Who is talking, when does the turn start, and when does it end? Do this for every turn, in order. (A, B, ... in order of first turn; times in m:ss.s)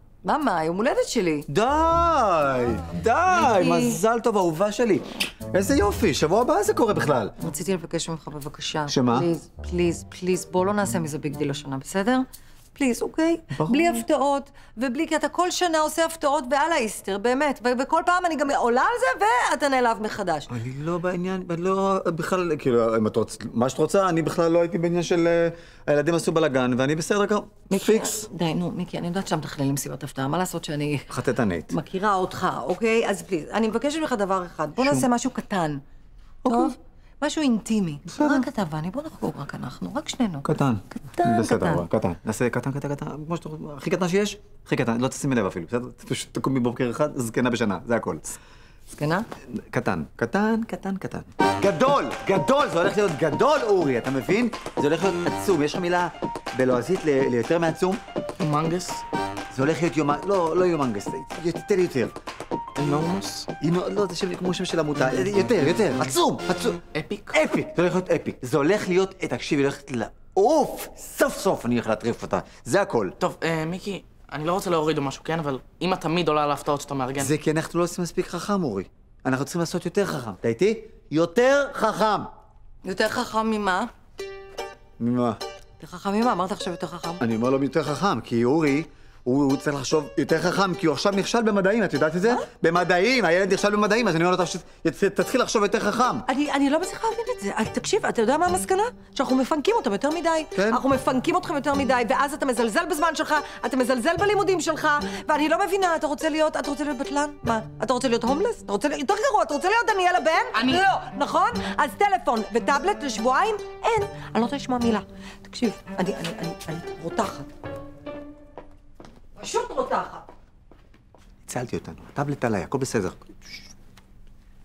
0:00.2-0:01.4 A
0:01.5-0:07.3 B
0:03.3-0:04.0 A
0:07.4-0:20.5 A
0:08.9-0:09.3 B
0:13.5-0:14.0 B
0:20.5-0:28.2 B
0:27.7-0:31.1 A
0:31.1-0:31.7 B
0:31.7-0:35.8 A
0:34.8-0:35.1 B
0:36.4-0:36.7 B
0:36.4-0:41.8 A
0:38.1-0:38.5 B
0:40.4-0:48.3 B
0:48.9-0:49.2 A
0:49.5-0:58.0 B
0:58.5-0:58.9 C
0:59.5-1:02.1 B
1:02.8-1:03.5 C
1:03.6-1:13.2 B
1:06.9-1:07.3 C
1:13.2-1:17.3 C
1:17.1-1:22.3 B
1:22.8-1:23.9 A
1:25.0-1:25.4 B
1:25.8-1:27.2 A
1:27.2-1:36.2 B
1:36.3-1:57.5 A
1:40.5-1:40.8 B
1:59.4-2:00.2 A
2:01.4-2:03.5 B